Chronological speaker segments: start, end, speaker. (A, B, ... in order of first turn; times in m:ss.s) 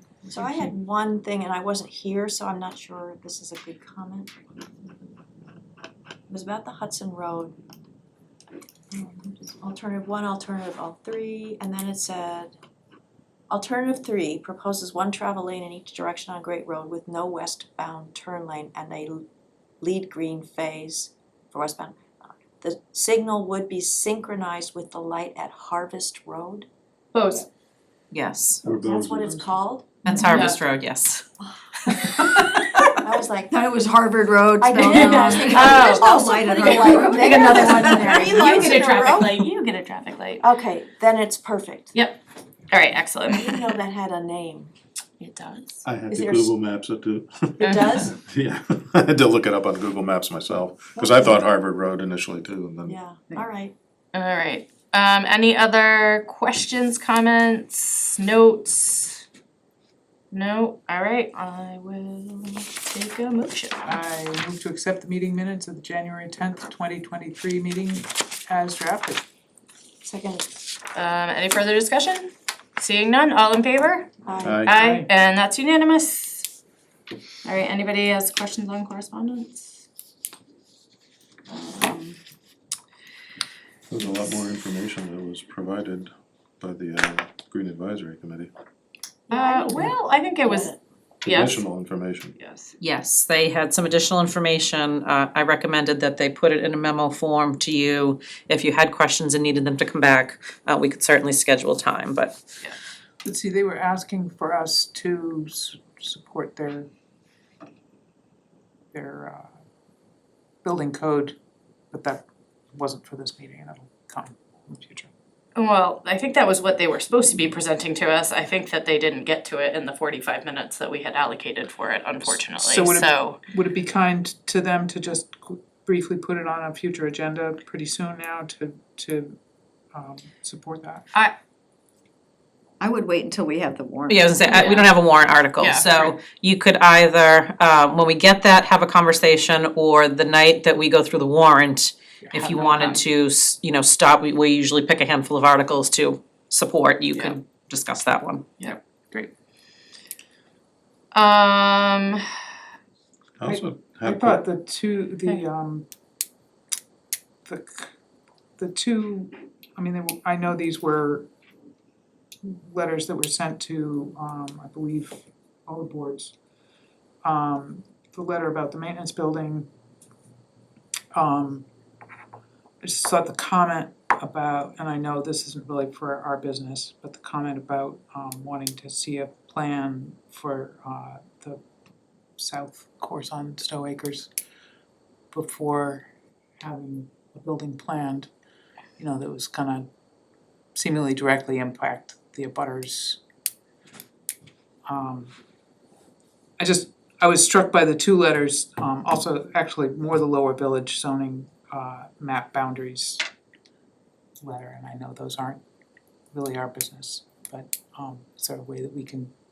0:00.3-0:04.3 A
0:00.4-0:00.6 B
0:06.3-0:07.5 A
0:08.9-0:12.5 A
0:13.5-0:19.2 A
0:19.8-0:26.7 A
0:27.1-0:27.5 C
0:28.1-0:28.6 D
0:28.6-0:29.6 E
0:28.7-0:29.9 A
0:30.0-0:31.3 D
0:30.2-0:30.6 C
0:31.8-0:32.8 D
0:32.9-0:33.6 A
0:33.5-0:38.6 F
0:34.6-0:39.4 A
0:34.9-0:40.4 C
0:40.4-0:41.9 A
0:42.7-0:43.5 C
0:43.3-0:44.7 A
0:45.2-0:45.8 C
0:45.8-0:53.0 E
0:46.1-0:46.5 A
0:47.6-0:48.2 A
0:47.6-0:48.0 C
0:51.0-0:51.3 A
0:52.8-0:53.7 A
0:54.1-0:59.2 C
1:00.3-1:04.0 C
1:03.8-1:09.2 B
1:10.0-1:10.5 A
1:10.9-1:14.1 C
1:14.2-1:14.7 A
1:14.4-1:14.7 E
1:14.6-1:16.5 C
1:14.7-1:15.1 B
1:17.4-1:19.8 C
1:21.6-1:22.1 F
1:23.9-1:28.5 E
1:29.3-1:30.7 A
1:29.3-1:31.7 C
1:31.2-1:32.4 E
1:32.4-1:32.7 C
1:32.8-1:42.4 D
1:43.2-1:46.9 B
1:48.9-1:49.5 B
1:50.6-1:51.4 B
1:51.9-1:55.1 B
1:55.6-2:03.4 C
2:02.3-2:09.4 B
2:09.9-2:11.1 B
2:12.8-2:14.5 F
2:14.1-2:28.4 D
2:14.4-2:15.0 C
2:15.6-2:16.2 C
2:22.4-2:23.0 C
2:31.1-2:32.2 C
2:33.4-2:34.4 E
2:33.4-2:35.8 B
2:37.4-2:37.9 B
2:38.6-2:41.3 B
2:42.4-2:46.3 B
2:47.2-2:49.7 B
2:51.1-2:51.6 B
2:52.8-3:01.6 B
3:02.4-3:04.3 B
3:05.3-3:06.1 B
3:06.6-3:08.3 B
3:09.0-3:09.9 B
3:10.7-3:13.2 B
3:14.8-3:15.3 B
3:16.6-3:23.2 B
3:24.4-3:25.6 B
3:26.3-3:29.3 B